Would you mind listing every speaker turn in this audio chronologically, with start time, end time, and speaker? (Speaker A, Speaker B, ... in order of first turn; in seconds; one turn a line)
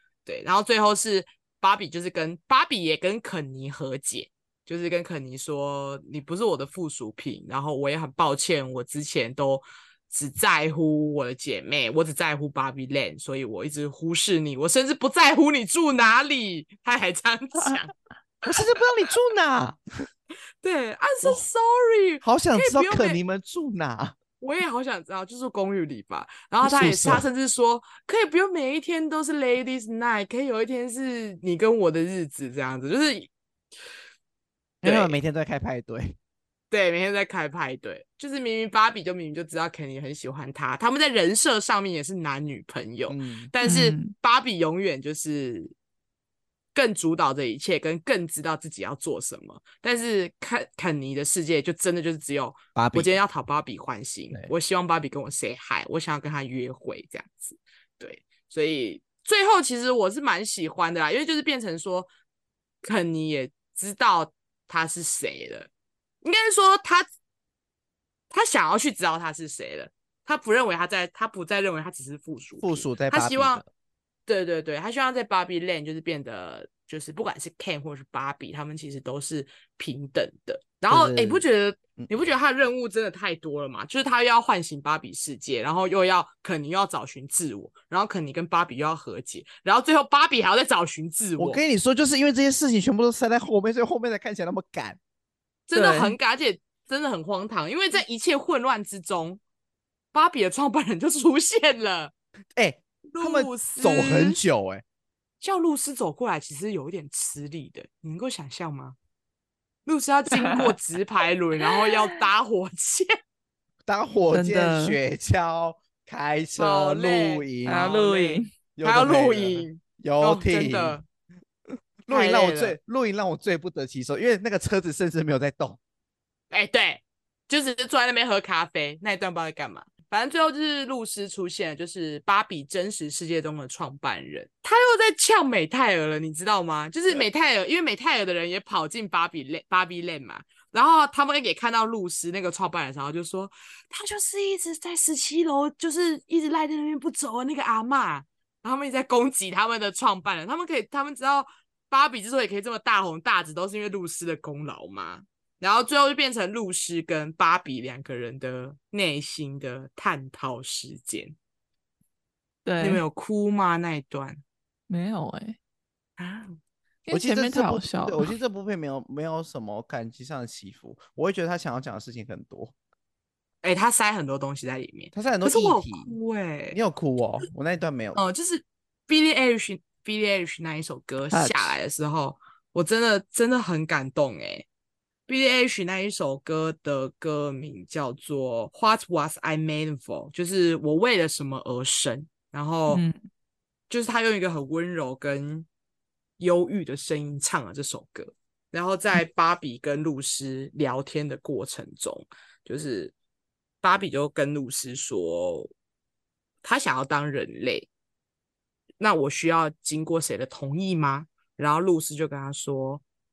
Speaker A: 0.2-17.9
Speaker B: 18.4-19.8
Speaker A: 20.6-23.2
Speaker B: 22.2-24.1
Speaker A: 24.4-33.3
Speaker B: 26.6-27.2
Speaker B: 34.8-36.2
Speaker A: 34.8-35.2
Speaker A: 36.7-45.7
Speaker B: 43.1-43.5
Speaker C: 43.6-44.1
Speaker A: 46.7-62.1
Speaker B: 52.7-53.1
Speaker A: 62.8-65.7
Speaker A: 66.2-67.0
Speaker A: 68.3-73.6
Speaker B: 72.6-73.7
Speaker A: 74.3-91.6
Speaker B: 80.9-81.4
Speaker B: 91.4-95.0
Speaker A: 95.7-99.4
Speaker C: 95.7-96.2
Speaker A: 100.1-102.1
Speaker B: 102.5-104.8
Speaker A: 103.1-104.4
Speaker A: 105.4-109.0
Speaker A: 109.8-113.1
Speaker C: 110.3-110.7
Speaker C: 111.8-112.2
Speaker B: 113.8-117.9
Speaker C: 114.3-115.0
Speaker A: 116.6-121.0
Speaker C: 117.6-118.5
Speaker B: 118.8-121.0
Speaker B: 122.0-125.8
Speaker A: 122.1-122.8
Speaker A: 126.5-161.3
Speaker C: 162.7-163.0
Speaker A: 162.8-164.4
Speaker C: 164.9-165.6
Speaker A: 166.2-166.6
Speaker C: 167.1-168.3
Speaker B: 167.1-172.7
Speaker A: 173.6-176.8
Speaker B: 175.1-176.2
Speaker B: 176.7-178.2
Speaker A: 178.1-184.7
Speaker A: 185.3-193.0
Speaker C: 192.9-193.2
Speaker A: 193.9-195.7
Speaker A: 196.4-203.1
Speaker A: 203.8-205.7
Speaker A: 206.6-207.9
Speaker A: 209.0-213.0